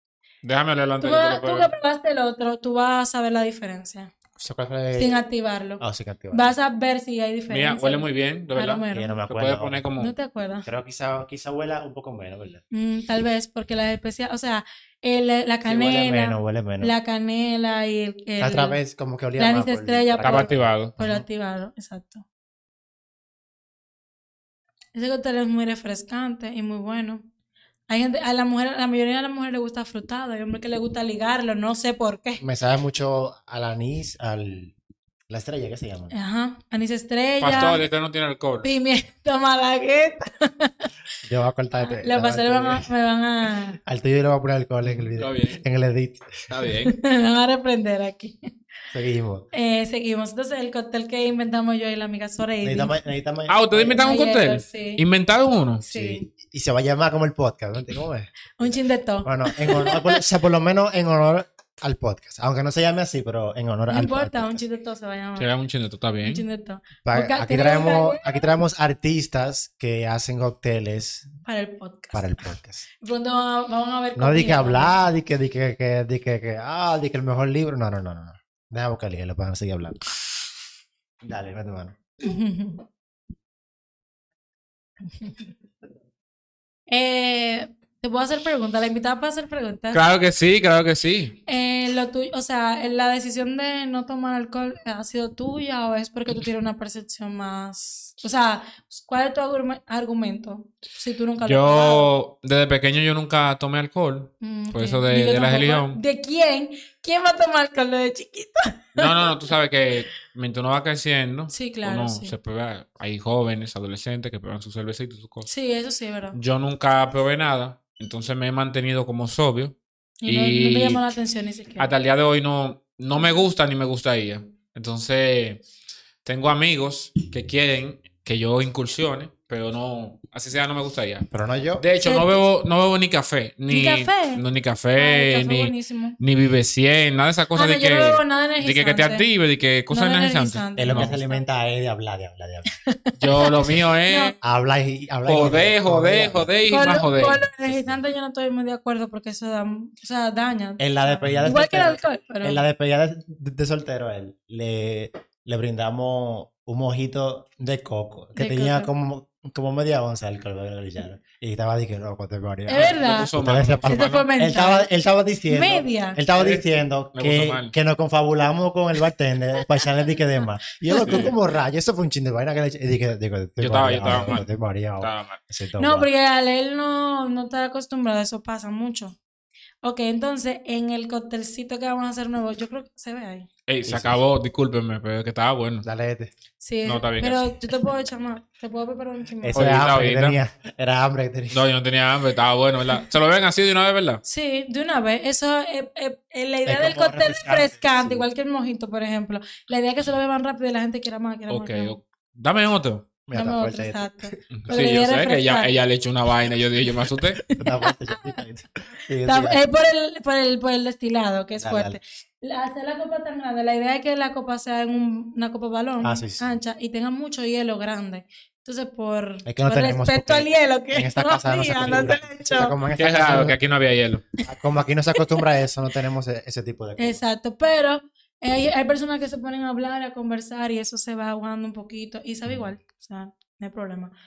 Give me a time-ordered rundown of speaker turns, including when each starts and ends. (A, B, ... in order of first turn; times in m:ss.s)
0:00.4-0:01.7 A
0:01.0-0:04.1 B
0:04.4-0:05.2 C
0:04.9-0:09.2 B
0:05.8-0:06.6 C
0:07.5-0:10.1 A
0:08.9-0:09.9 C
0:10.0-0:10.7 B
0:10.6-0:12.6 C
0:12.7-0:18.8 B
0:15.7-0:17.0 C
0:18.4-0:21.2 C
0:19.4-0:22.2 B
0:20.2-0:21.0 A
0:25.0-0:27.3 B
0:27.9-0:32.4 B
0:32.4-0:34.8 C
0:35.3-0:36.1 C
0:36.1-0:37.8 B
0:37.4-0:38.7 A
0:37.5-0:37.8 C
0:38.6-0:40.9 B
0:41.2-0:42.9 C
0:41.8-0:43.8 B
0:43.9-0:46.3 C
0:44.8-0:45.6 A
0:46.5-0:47.0 A
0:46.9-0:48.4 B
0:48.9-0:49.5 C
0:49.5-0:53.0 B
0:52.6-0:54.1 C
0:53.5-0:55.8 A
0:54.0-0:55.0 B
0:55.8-0:56.3 B
0:55.9-1:04.6 C
0:58.6-1:00.2 B
1:03.9-1:05.5 B
1:05.4-1:06.4 A
1:06.2-1:08.5 B
1:07.0-1:11.3 C
1:11.5-1:12.3 B
1:12.1-1:12.8 C
1:13.0-1:15.0 B
1:14.2-1:20.0 C
1:21.2-1:22.0 C
1:22.2-1:22.8 B
1:25.1-1:25.5 B
1:26.9-1:30.0 B
1:29.9-1:31.4 A
1:31.5-1:42.1 B
1:41.4-1:46.0 A
1:44.4-1:49.3 B
1:49.0-1:55.5 A
1:51.5-1:52.4 B
1:55.5-1:56.4 B
1:56.3-1:59.8 A
2:00.2-2:01.9 B
2:00.3-2:01.0 A
2:01.8-2:05.6 A
2:06.2-2:11.3 A
2:11.3-2:11.9 C
2:11.8-2:21.2 A
2:12.0-2:12.4 B
2:13.7-2:14.4 B
2:15.0-2:16.2 B
2:17.6-2:19.3 B
2:19.9-2:21.4 B
2:20.8-2:22.7 C
2:23.2-2:24.4 A
2:24.1-2:24.4 B
2:24.4-2:28.0 C
2:25.2-2:27.4 A
2:26.7-2:32.6 B
2:30.8-2:56.1 C
2:38.4-2:38.9 B
2:42.7-2:43.3 B
2:42.7-2:44.3 A
2:43.9-2:44.9 B
2:45.5-2:46.2 B
2:46.3-2:47.7 A
2:50.4-2:51.3 B
2:51.0-2:51.3 A
2:53.6-2:54.5 A
2:55.0-2:55.4 A
2:55.8-2:59.2 B
2:59.8-3:03.5 B
3:03.7-3:05.9 A
3:03.9-3:04.2 C
3:05.8-3:06.3 C
3:06.6-3:09.8 B
3:06.8-3:07.5 A
3:09.4-3:11.6 C
3:09.5-3:10.4 A
3:11.5-3:14.2 A
3:14.2-3:22.0 B
3:16.7-3:18.3 C
3:21.5-3:23.1 A
3:23.3-3:24.9 C
3:23.3-3:25.7 B
3:24.5-3:27.4 A
3:27.4-3:28.4 B
3:27.6-3:29.6 C
3:29.2-3:42.8 B
3:31.6-3:32.0 C
3:36.0-3:36.5 C
3:39.5-3:43.6 C
3:43.0-3:44.2 A
3:44.4-3:47.2 C
3:45.1-3:45.4 B
3:47.0-3:54.1 B